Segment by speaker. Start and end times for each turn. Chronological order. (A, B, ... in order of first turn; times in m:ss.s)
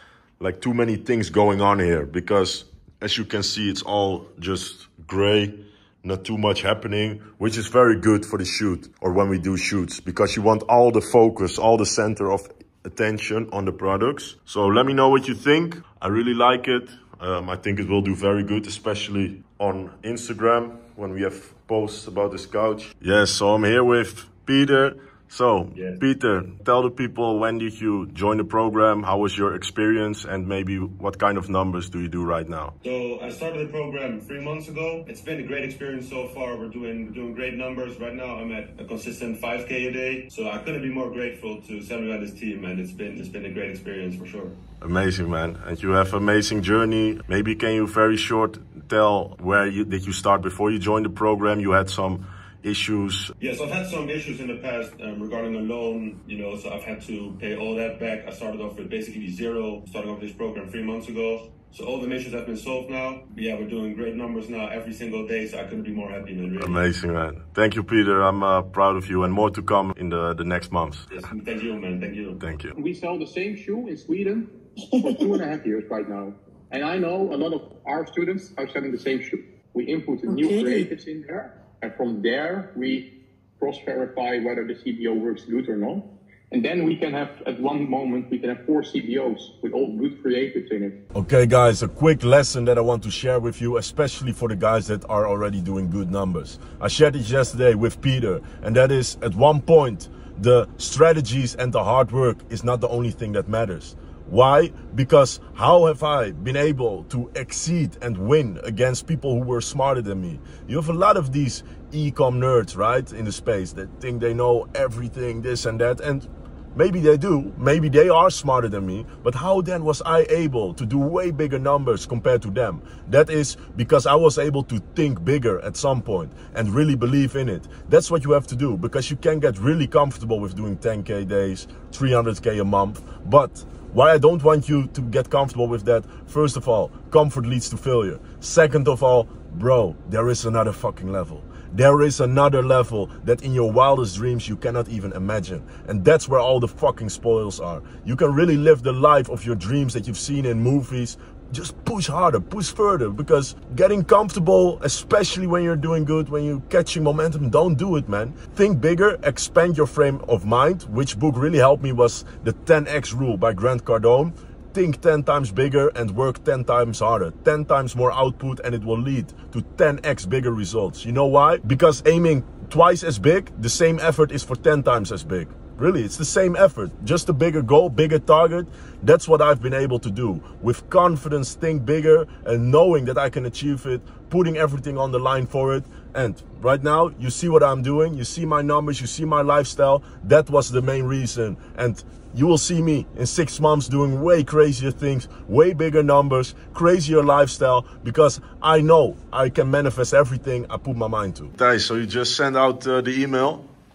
0:00.4-0:32.8 A
0:25.8-0:26.0 B
0:32.8-0:44.6 B
0:44.8-0:53.3 A
0:53.4-1:06.8 B
1:06.6-1:11.1 A
1:11.1-1:12.4 B
1:12.4-1:12.7 A
1:12.7-1:31.0 C
1:31.1-3:23.7 A